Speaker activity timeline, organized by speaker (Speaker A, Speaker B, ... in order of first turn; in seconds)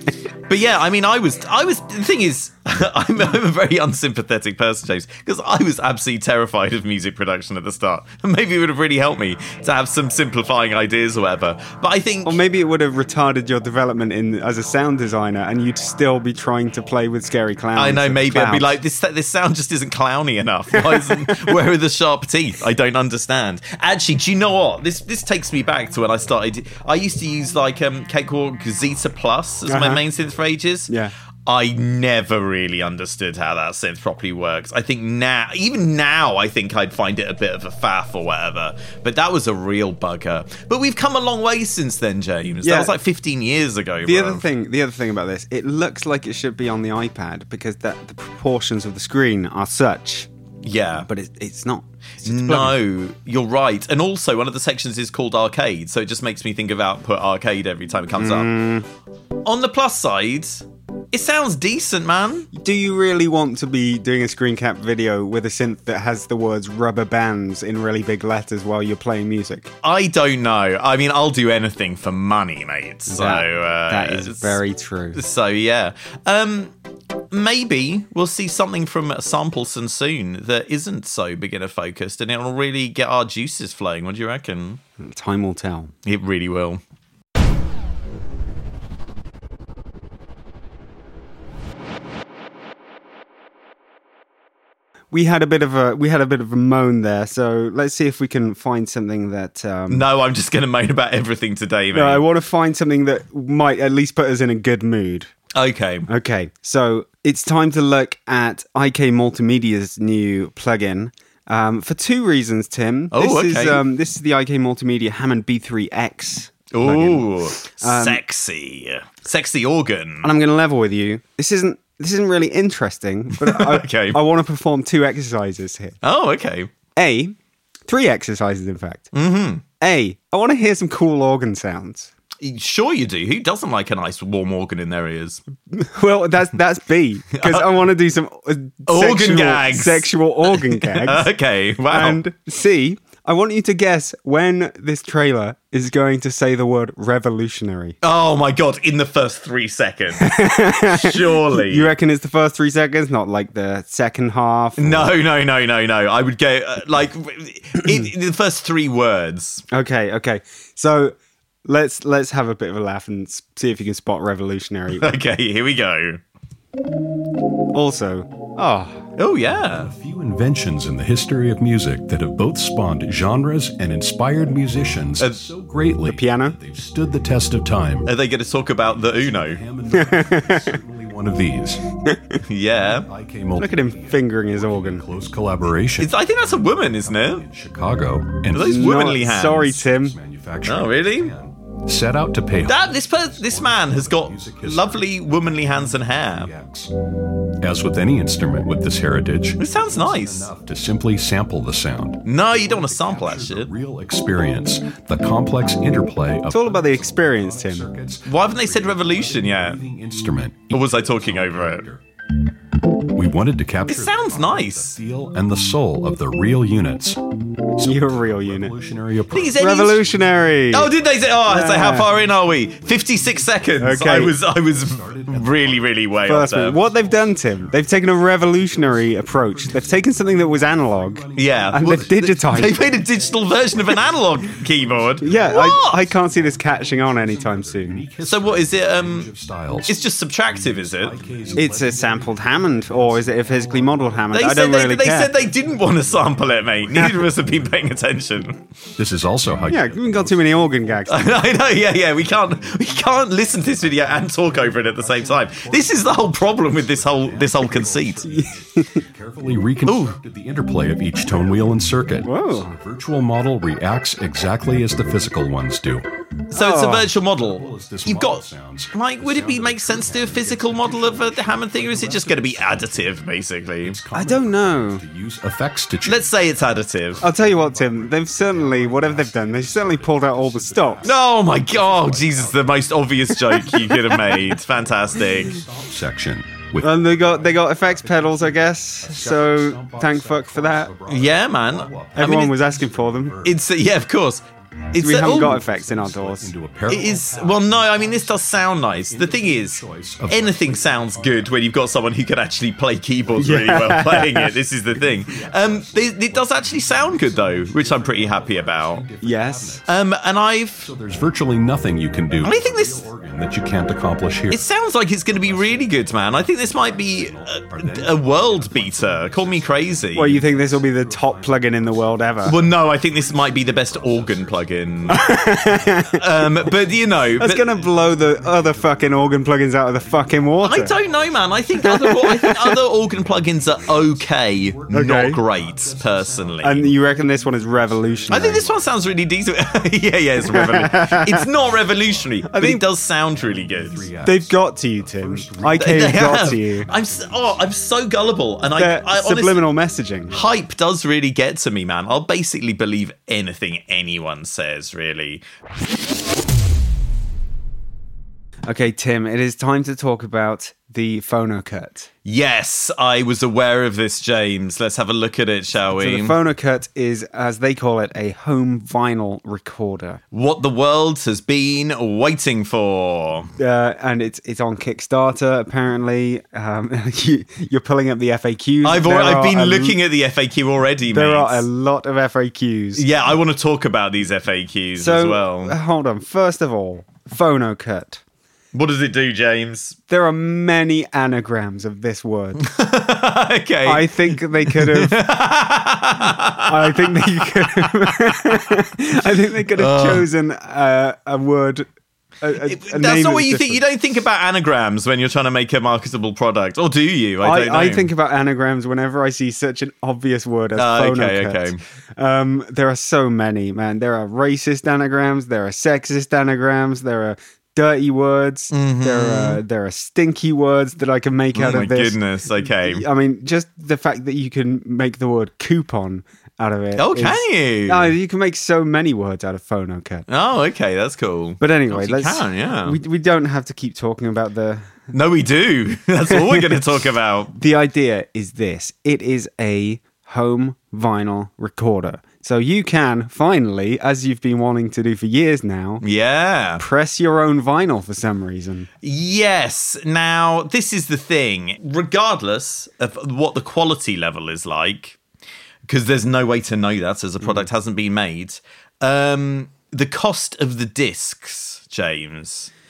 Speaker A: 0.5-12.4, 17.7-30.9, 31.4-44.4, 50.6-51.0, 52.2-58.5, 59.4-62.5, 69.8-74.6, 75.1-76.7, 77.3-84.8, 86.0-86.8, 99.9-102.2, 105.5-106.1, 113.1-113.8, 116.7-120.3, 123.4-124.2, 126.0-126.7, 129.1-129.6, 132.4-135.4, 137.3-137.7, 138.9-142.2, 148.0-151.9, 154.8-159.6, 164.9-166.2, 169.2-169.9, 178.1-179.6, 182.5-183.1, 186.0-187.4, 188.5-189.8, 190.6-191.3, 192.6-196.5, 199.6-200.5, 202.2-203.7, 208.3-209.8, 210.7-211.8, 213.8-215.0, 219.3-220.0, 220.7-226.8, 231.3-236.0, 238.2-239.3, 239.8-241.2, 244.3-248.6, 251.1-258.2, 259.8-260.1, 266.5-274.0, 276.0-277.2, 281.0-285.6, 291.1-292.5, 293.4-295.6, 296.9-309.0, 309.9-310.9, 312.4-313.1, 314.5-320.4, 322.4-325.3, 326.1-327.7, 330.6-336.8, 338.3-344.1, 345.7-349.6, 350.3-355.4, 362.2-366.4, 370.3-373.5, 378.8-381.7, 382.9-385.7, 388.7-390.0, 392.6-398.3, 399.7-400.2, 402.6-408.1, 410.8-411.8, 418.7-419.6, 421.5-423.0, 426.9-428.1, 430.3-433.0, 435.1-437.5, 446.0-446.8, 449.0-455.2, 455.9-462.7
Speaker B: 12.2-18.6, 20.7-21.5, 29.7-30.0, 30.9-31.1, 42.6-42.9, 44.0-50.3, 51.0-52.7, 58.2-58.9, 62.5-69.7, 73.1-75.2, 85.0-85.9, 95.1-100.0, 101.9-105.3, 106.1-118.2, 120.2-126.0, 127.0-127.3, 127.9-129.1, 129.8-132.1, 135.7-141.3, 141.9-148.0, 150.2-155.1, 159.7-165.1, 167.7-169.0, 176.1-176.6, 179.9-180.8, 182.0-182.4, 183.6-185.0, 188.7-190.2, 206.5-207.9, 217.8-218.7, 219.6-220.9, 221.5-222.1, 223.8-224.3, 226.2-232.8, 235.2-238.0, 241.5-245.3, 249.7-251.4, 258.2-259.0, 262.2-262.7, 266.5-267.1, 274.1-275.0, 277.2-281.1, 286.8-290.9, 292.1-293.3, 295.0-296.5, 303.4-304.5, 309.2-309.8, 320.1-322.6, 325.1-326.2, 327.4-331.0, 331.8-332.8, 334.9-335.4, 336.6-338.6, 340.5-341.4, 342.5-342.8, 344.2-346.9, 348.7-350.3, 358.7-362.1, 366.0-370.2, 373.6-380.0, 381.1-383.0, 385.0-388.2, 390.1-392.6, 393.8-395.2, 396.6-401.9, 402.4-403.8, 407.4-430.2, 431.6-435.1, 436.3-436.8, 437.5-446.0, 446.8-448.9, 457.4-457.7
Speaker C: 169.8-178.1, 178.8-181.9, 182.9-195.1, 195.6-196.9, 197.6-212.0, 213.1-217.2, 217.7-266.1, 267.1-293.7, 295.1-302.5, 303.2-310.0, 310.8-314.6, 315.3-347.8